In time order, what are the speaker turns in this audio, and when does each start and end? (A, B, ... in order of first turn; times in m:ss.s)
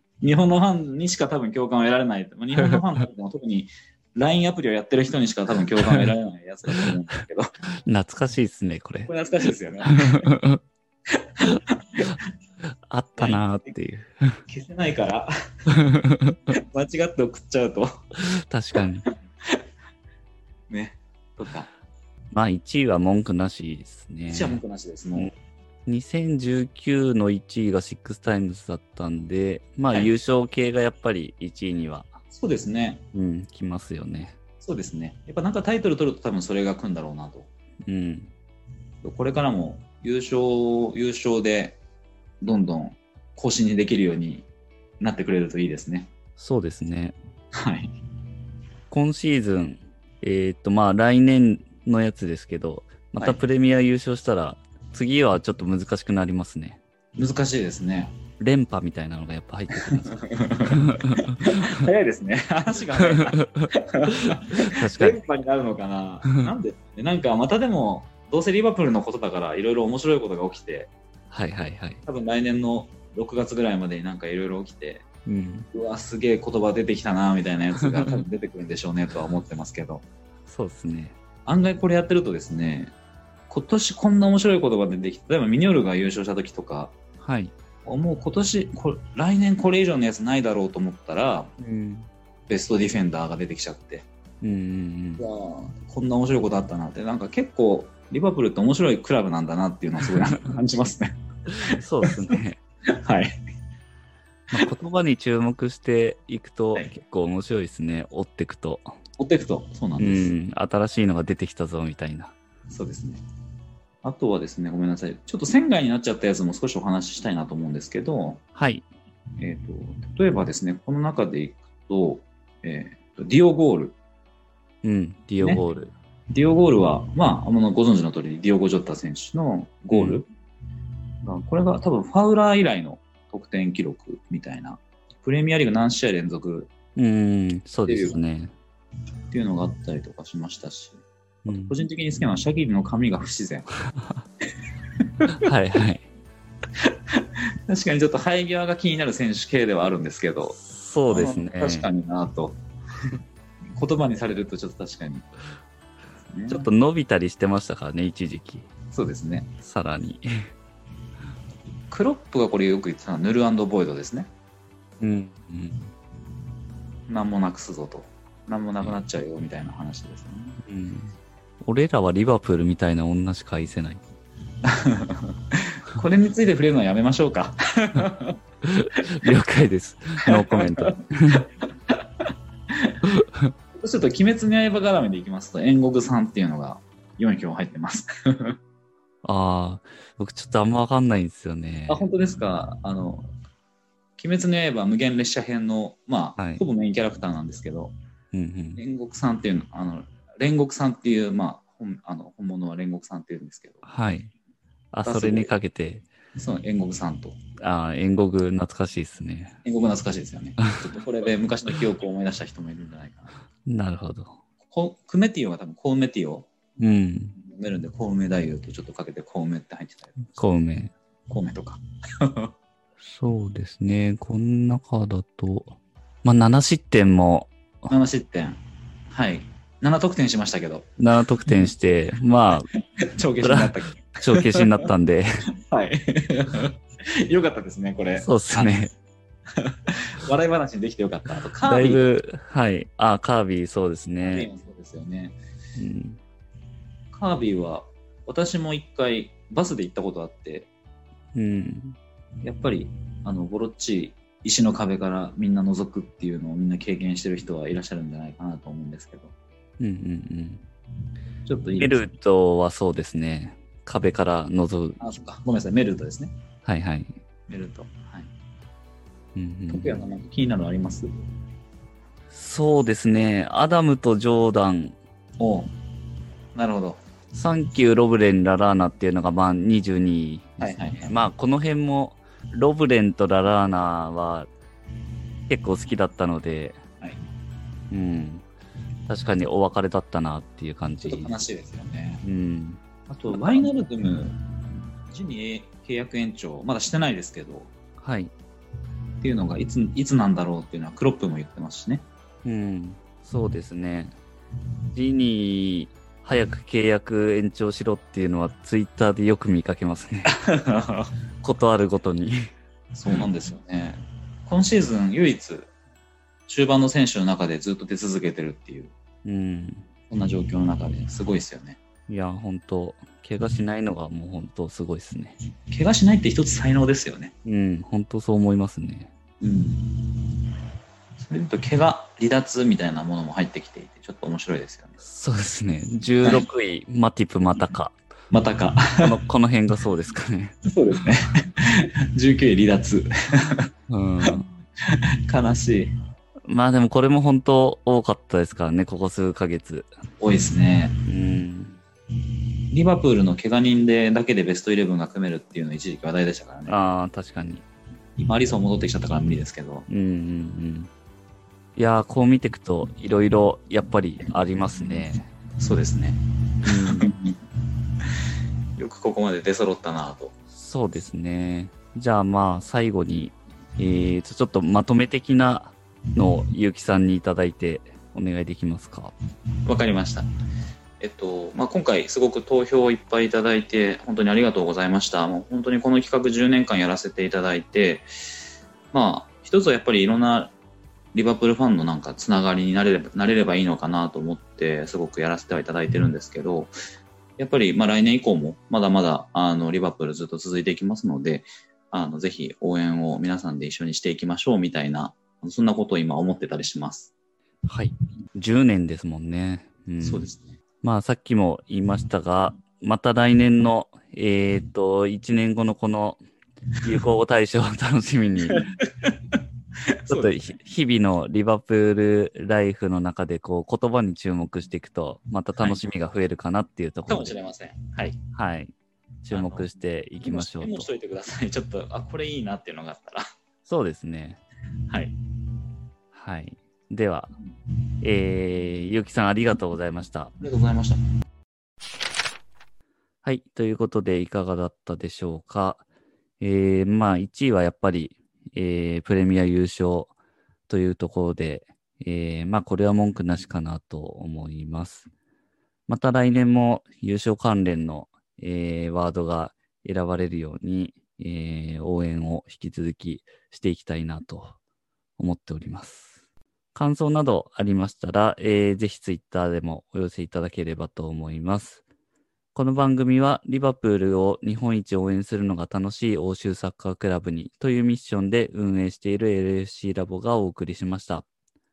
0:00.2-0:07.5 A
0:05.8-0:06.1 B
0:07.9-0:09.1 B
0:09.1-0:10.3 A
0:09.9-0:10.6 B
0:11.1-0:12.2 A
0:12.9-0:14.4 B
0:13.2-0:13.4 A
0:14.5-0:15.3 A
0:15.7-0:16.5 B
0:16.5-0:17.9 A
0:18.2-0:19.1 B
0:20.7-0:21.7 A
0:22.3-0:24.6 B
0:24.3-0:25.3 A
0:25.9-0:32.2 B
0:32.3-0:33.0 A
0:33.1-0:34.4 B
0:34.6-0:37.5 A
0:37.9-0:38.3 B
0:39.0-0:41.8 A
0:42.4-0:44.5 A
0:45.0-0:46.1 A
0:46.4-0:47.2 B
0:47.5-0:47.9 A
0:48.9-0:56.8 B
0:57.2-0:58.2 A
0:58.4-1:01.7 B
0:59.9-1:10.9 A
1:03.0-1:05.2 B
1:11.3-1:12.0 B
1:12.1-1:15.0 A
1:15.3-1:15.7 B
1:15.7-1:20.0 A
1:20.5-1:21.2 B
1:21.5-1:22.9 A
1:23.5-1:27.0 A
1:27.2-1:27.5 B
1:27.8-1:31.5 A
1:31.6-1:32.1 B
1:32.5-1:34.1 A
1:34.4-1:35.2 B
1:35.2-1:41.1 A
1:41.5-1:42.6 B
1:41.7-1:42.3 A
1:42.9-1:43.3 A
1:44.5-1:49.0 B
1:49.2-1:50.3 A
1:50.0-1:52.4 B
1:52.7-1:53.2 A
1:54.0-1:58.4 A
1:58.6-1:58.9 B
1:59.4-2:04.0 A
2:04.8-2:05.9 B
2:06.3-2:10.3 A
2:09.9-2:10.2 B
2:11.2-2:16.7 A
2:17.0-2:18.5 B
2:17.9-2:18.2 A
2:19.3-2:23.7 A
2:21.4-2:21.8 B
2:25.3-2:26.1 B
2:26.8-2:30.6 A
2:30.6-2:31.9 B
2:31.1-2:32.6 A
2:33.8-2:35.3 A
2:36.3-2:36.7 A
2:36.5-2:38.7 B
2:38.9-2:39.5 A
2:39.6-2:40.5 B
2:41.9-2:44.3 A
2:45.0-2:45.9 B
2:47.1-2:50.6 A
2:50.6-2:54.0 B
2:54.6-2:58.4 A
2:58.6-3:01.5 B
3:00.3-3:00.8 A
3:02.7-3:03.0 A
3:03.1-3:03.5 B
3:03.8-3:08.6 A
3:09.2-3:12.1 B
3:11.9-3:13.3 A
3:14.2-3:17.9 A
3:16.4-3:16.6 B
3:18.3-3:18.8 B
3:18.8-3:23.8 A
3:23.8-3:24.3 B
3:24.9-3:26.1 B
3:25.0-3:25.5 A
3:26.4-3:27.4 A
3:27.6-3:29.6 B
3:29.6-3:33.3 A
3:33.7-3:34.4 B
3:34.7-3:36.5 A
3:36.8-3:37.4 B
3:37.4-3:40.4 A
3:40.3-3:40.9 B
3:41.3-3:42.5 A
3:43.0-3:47.9 B
3:47.9-3:50.9 A
3:51.0-3:52.7 B
3:53.0-3:54.7 A
3:53.4-3:55.5 B
3:55.7-3:58.7 A
3:58.2-3:58.9 B
3:59.5-4:02.1 A
4:01.7-4:04.5 B
4:04.2-4:05.4 A
4:05.8-4:06.2 B
4:07.1-4:10.7 A
4:11.3-4:12.0 B
4:12.4-4:19.3 A
4:19.8-4:20.6 B
4:21.4-4:22.0 A
4:21.8-4:25.0 B
4:25.0-4:26.3 A
4:26.6-4:27.2 B
4:27.5-4:28.3 A
4:29.4-4:30.0 B
4:29.7-4:31.1 A
4:32.3-4:35.0 B
4:35.4-4:35.7 A
4:36.6-4:37.0 A
4:37.3-4:44.5 B
4:40.6-4:41.1 A
4:45.5-4:46.8 B
4:47.9-4:48.5 B
4:49.1-4:51.4 B
4:51.0-4:52.2 A
4:52.2-4:52.8 B
4:53.1-4:57.7 A
4:58.0-4:58.3 B
4:59.2-5:02.0 A
5:02.4-5:04.2 B
5:04.9-5:10.4 B
5:10.3-5:11.1 A
5:11.4-5:12.5 B
5:12.9-5:15.7 A
5:16.5-5:18.9 A
5:19.2-5:19.9 B
5:20.1-5:21.8 A
5:22.1-5:25.4 B
5:25.7-5:27.3 A
5:27.4-5:29.1 B
5:29.4-5:30.4 A
5:31.2-5:35.0 A
5:35.0-5:38.0 B
5:38.3-5:39.1 A
5:39.0-5:40.6 B
5:40.6-5:43.7 A
5:43.9-5:44.5 B
5:44.2-5:45.9 A
5:46.5-5:49.9 B
5:50.2-5:50.9 A
5:51.1-5:51.8 B
5:52.7-5:56.8 A
5:56.7-5:57.6 B
5:58.2-5:59.9 A
5:59.9-6:00.9 B
6:01.8-6:05.3 B
6:05.6-6:06.2 A
6:06.6-6:07.1 B
6:07.0-6:07.4 A
6:08.0-6:08.3 A
6:08.8-6:10.3 A
6:10.5-6:19.1 B
6:19.7-6:20.3 A
6:21.0-6:28.1 A
6:28.9-6:30.5 A
6:31.1-6:36.7 A
6:37.4-6:47.1 A
6:47.7-6:50.3 B
6:50.0-6:50.5 A
6:50.8-6:56.2 B
6:56.8-6:58.7 B
6:58.5-6:59.4 A
7:00.0-7:00.4 A
7:00.1-7:07.3 B
7:07.1-7:08.2 A
7:08.3-7:08.7 B
7:09.2-7:10.9 B
7:09.3-7:09.7 A
7:10.2-7:13.2 A
7:13.7-7:14.4 B
7:14.9-7:15.2 A
7:16.1-7:17.3 B
7:18.0-7:20.3 B
7:20.4-7:21.0 A
7:23.2-7:25.8 B
7:26.4-7:30.2 B
7:30.7-7:35.1 B
7:35.9-7:44.6 B
7:45.2-7:46.2 B
7:46.7-7:51.8 B
7:52.6-8:01.3 B